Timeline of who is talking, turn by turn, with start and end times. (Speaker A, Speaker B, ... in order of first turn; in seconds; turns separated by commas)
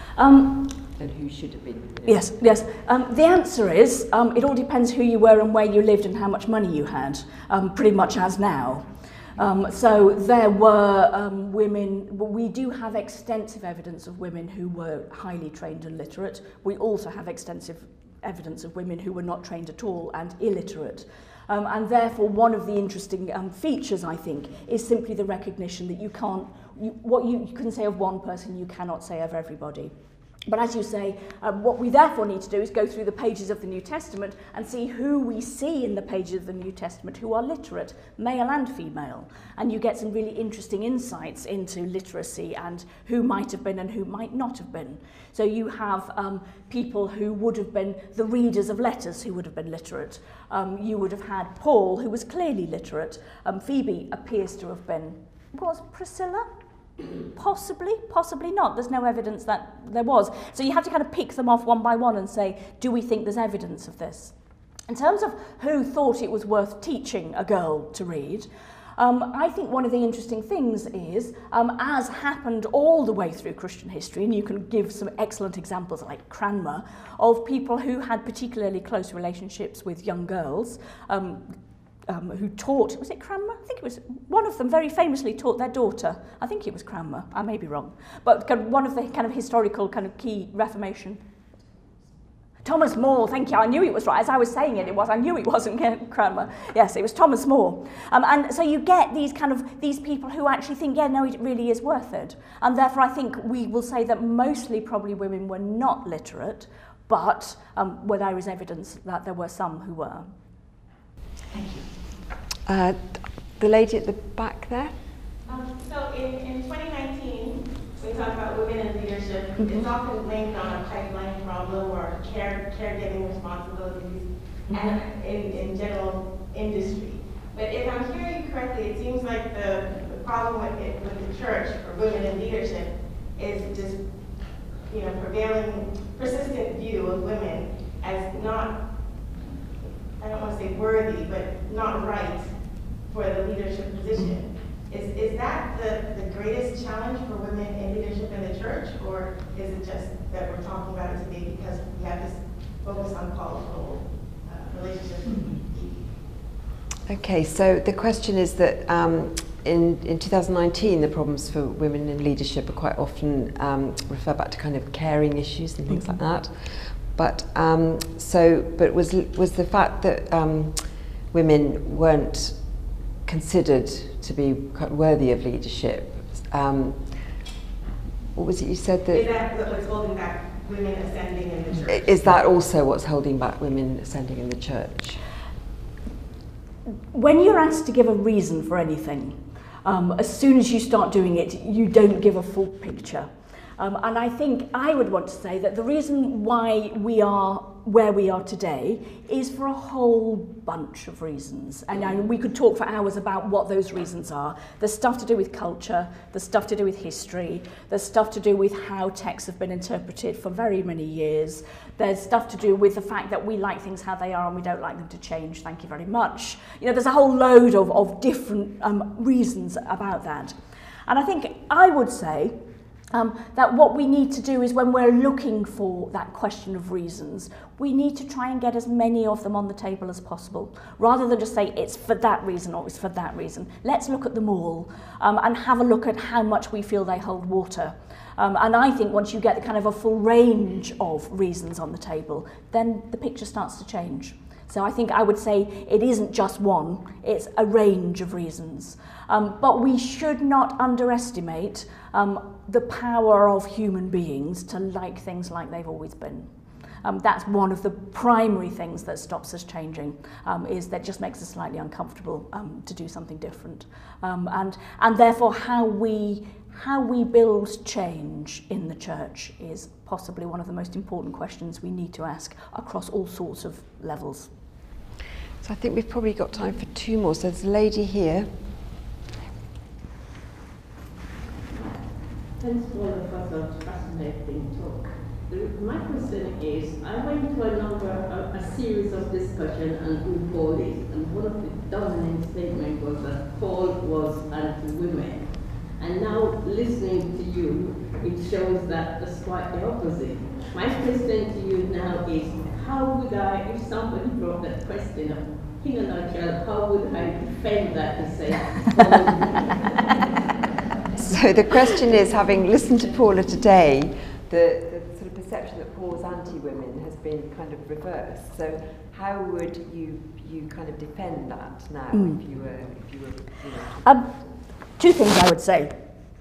Speaker A: 0.1-0.7, Speaker B: 0.9-2.6, Speaker A: 2.1-29.9, Speaker A: 30.4-56.5, Speaker A: 57.3-64.3, Speaker A: 64.9-81.5, Speaker A: 82.0-91.2, Speaker A: 92.6-110.3, Speaker B: 112.6-115.0, Speaker C: 115.4-139.4, Speaker A: 119.6-119.9, Speaker A: 124.7-125.0, Speaker C: 140.2-156.2, Speaker A: 155.3-155.5, Speaker B: 157.1-177.4, Speaker B: 178.3-179.3, Speaker C: 179.1-182.3, Speaker B: 181.8-185.2, Speaker A: 187.1-220.5, Speaker A: 221.1-222.6, Speaker A: 223.1-256.5, Speaker A: 257.0-274.5, Speaker B: 275.6-278.5, Speaker D: 281.7-310.2, Speaker B: 311.1-324.4, Speaker A: 322.1-322.4, Speaker A: 324.0-324.3, Speaker A: 325.0-325.9